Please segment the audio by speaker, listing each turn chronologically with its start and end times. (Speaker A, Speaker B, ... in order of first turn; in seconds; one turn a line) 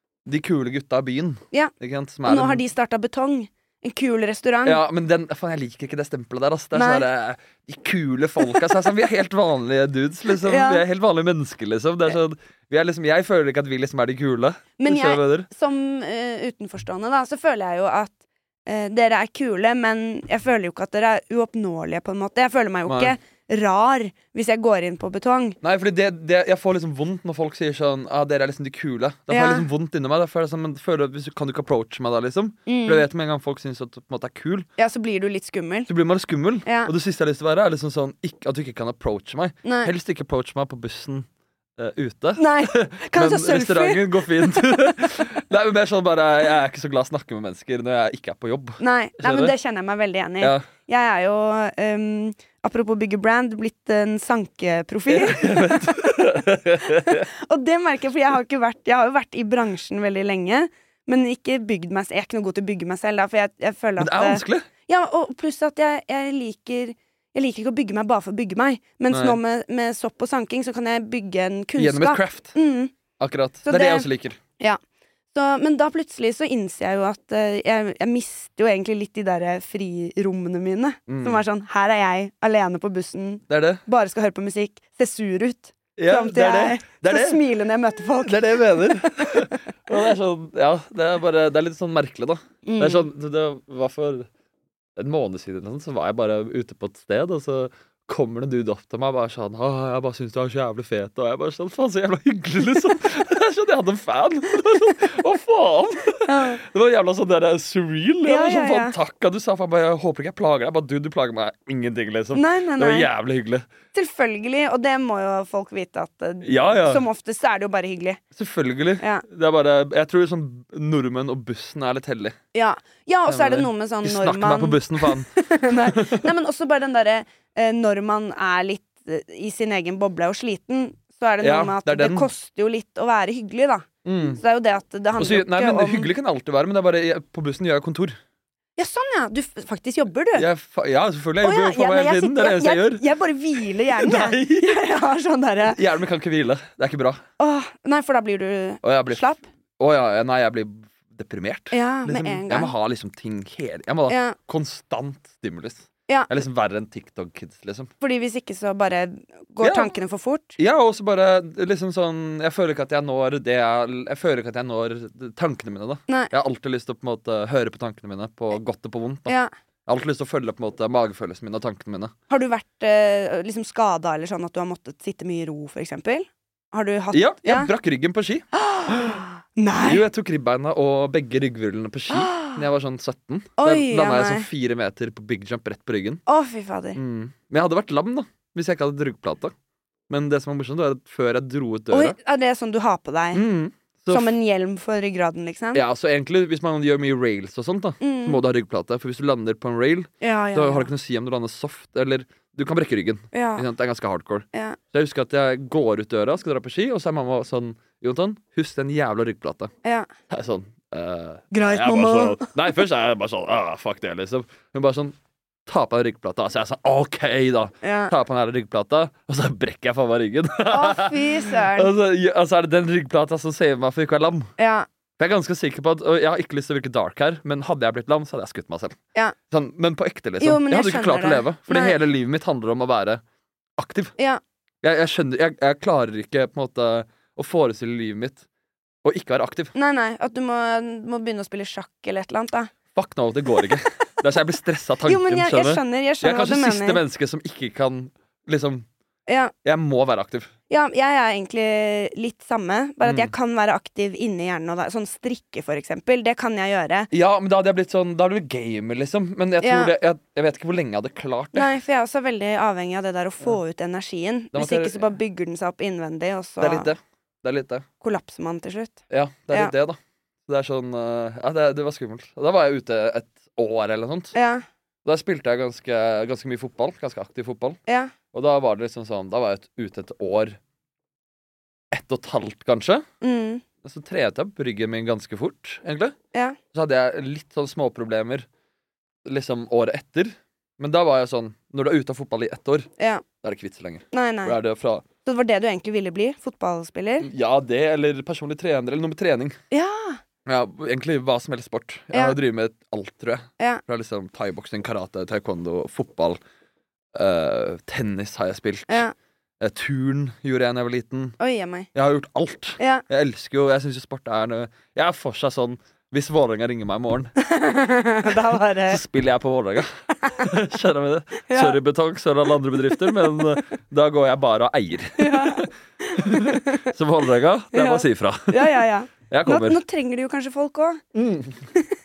Speaker A: 0.2-2.6
Speaker B: 2.2-4.8
Speaker A: 4.6-15.5
Speaker B: 6.7-7.0
Speaker B: 10.4-10.8
Speaker B: 14.8-18.1
Speaker B: 18.6-25.6
Speaker A: 22.9-23.1
Speaker A: 25.6-34.7
Speaker B: 29.3-29.6
Speaker B: 32.7-33.0
Speaker B: 34.8-35.9
Speaker A: 35.9-49.5
Speaker B: 36.6-36.9
Speaker B: 39.6-39.9
Speaker B: 42.4-45.2
Speaker B: 48.8-72.9
Speaker A: 55.1-57.2
Speaker A: 64.0-64.7
Speaker A: 69.1-69.4
Speaker A: 71.8-72.5
Speaker A: 73.2-74.4
Speaker B: 73.6-74.1
Speaker B: 75.3-89.5
Speaker A: 81.1-81.4
Speaker A: 83.5-83.8
Speaker A: 86.0-87.4
Speaker A: 88.2-94.3
Speaker B: 92.6-93.0
Speaker A: 95.0-113.7
Speaker B: 106.3-106.6
Speaker B: 108.2-109.0
Speaker B: 112.3-113.1
Speaker B: 113.9-118.2
Speaker A: 116.4-117.0
Speaker A: 118.3-122.3
Speaker B: 122.5-136.1
Speaker A: 123.3-126.2
Speaker A: 131.4-132.3
Speaker A: 134.0-134.4
Speaker A: 135.2-138.2
Speaker B: 138.8-140.5
Speaker A: 140.3-143.0
Speaker B: 141.4-145.8
Speaker A: 143.8-144.8
Speaker A: 145.6-147.2
Speaker B: 147.4-149.4
Speaker A: 148.8-157.9
Speaker B: 151.7-152.7
Speaker B: 154.1-154.3
Speaker B: 158.0-160.6
Speaker A: 159.6-159.9
Speaker A: 160.6-169.3
Speaker A: 169.9-172.1
Speaker B: 172.3-177.7
Speaker A: 177.1-179.2
Speaker B: 178.5-180.1
Speaker A: 179.8-186.2
Speaker B: 182.1-182.6
Speaker B: 183.6-184.4
Speaker B: 186.2-187.0
Speaker A: 186.9-189.5
Speaker A: 190.1-192.2
Speaker B: 191.9-193.4
Speaker A: 193.3-194.3
Speaker B: 194.1-195.8
Speaker A: 195.7-209.7
Speaker B: 198.0-198.4
Speaker B: 200.2-200.9
Speaker B: 203.3-203.7
Speaker B: 204.5-204.8
Speaker A: 210.3-215.1
Speaker B: 211.5-212.5
Speaker A: 215.7-224.5
Speaker B: 217.8-218.1
Speaker B: 220.7-221.9
Speaker B: 224.6-224.8
Speaker A: 225.2-229.0
Speaker A: 229.5-233.2
Speaker B: 230.4-232.0
Speaker A: 233.8-234.1
Speaker A: 234.8-238.4
Speaker A: 239.0-239.7
Speaker B: 239.7-242.7
Speaker A: 242.9-248.8
Speaker B: 245.0-247.0
Speaker B: 249.3-249.5
Speaker A: 249.6-250.5
Speaker B: 250.7-257.1
Speaker A: 253.0-253.3
Speaker A: 257.1-261.7
Speaker B: 259.6-259.9
Speaker B: 261.5-266.9
Speaker A: 264.5-265.0
Speaker A: 266.6-267.8
Speaker B: 268.0-269.0
Speaker A: 269.1-274.3
Speaker B: 274.3-274.6
Speaker A: 275.0-277.8
Speaker B: 277.9-278.1
Speaker A: 278.3-280.6
Speaker A: 281.9-283.0
Speaker B: 283.2-283.6
Speaker A: 283.8-286.1
Speaker B: 286.3-286.6
Speaker A: 286.7-288.4
Speaker A: 289.2-292.9
Speaker B: 293.0-293.2
Speaker A: 293.4-295.1
Speaker B: 294.1-294.6
Speaker B: 295.2-297.3
Speaker A: 297.2-299.6
Speaker B: 299.7-300.2
Speaker A: 300.4-306.4
Speaker A: 307.1-309.0
Speaker B: 308.9-309.1
Speaker A: 309.6-311.4
Speaker B: 311.4-311.9
Speaker A: 311.9-317.3
Speaker B: 312.8-313.0
Speaker B: 317.4-319.0
Speaker A: 318.4-329.8
Speaker B: 320.2-320.5
Speaker B: 321.5-321.8
Speaker B: 323.0-323.6
Speaker B: 325.2-326.9
Speaker B: 327.7-331.0
Speaker A: 331.1-331.6